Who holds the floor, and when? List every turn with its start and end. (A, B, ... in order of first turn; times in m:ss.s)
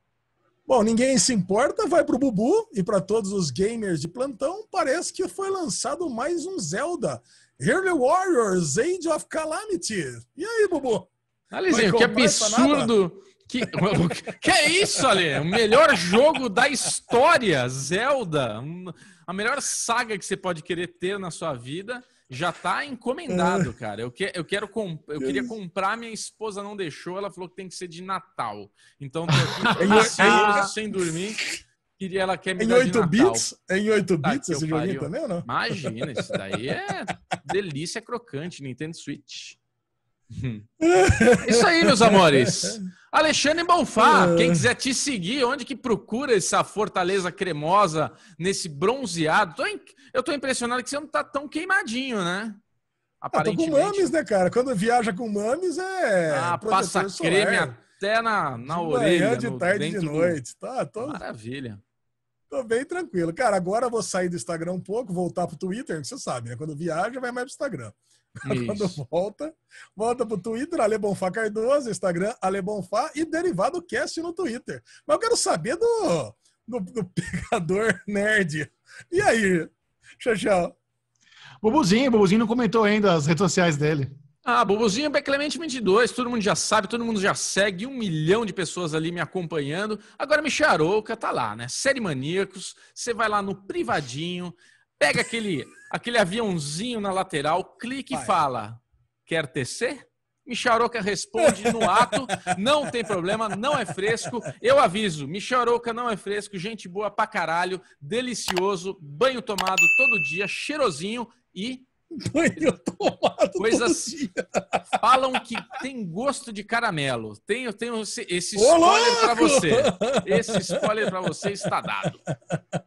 0:00.7-0:11.1 A
0:11.5-0:33.5 B
0:11.7-0:12.9 A
0:14.9-0:15.3 A
0:23.3-0:23.7 A
0:25.2-0:25.5 A
0:29.8-0:30.7 A
0:29.8-0:30.7 C
0:32.6-0:36.4 A
0:34.2-0:39.6 B
0:40.3-0:40.6 B
0:40.8-0:42.8 A
0:41.4-0:52.6 B
0:44.0-0:44.7 A
0:53.2-0:54.1 B
0:53.3-0:57.8 A
0:56.3-1:00.4 B
0:58.7-1:01.2 A
1:01.0-1:01.8 B
1:02.5-1:20.7 A
1:08.4-1:09.0 B
1:21.6-1:24.1 C
1:24.4-1:51.9 B
1:41.4-1:42.2 A
1:52.1-1:55.1 A
1:53.6-1:54.1 B
1:55.0-2:02.2 B
1:58.6-2:01.1 A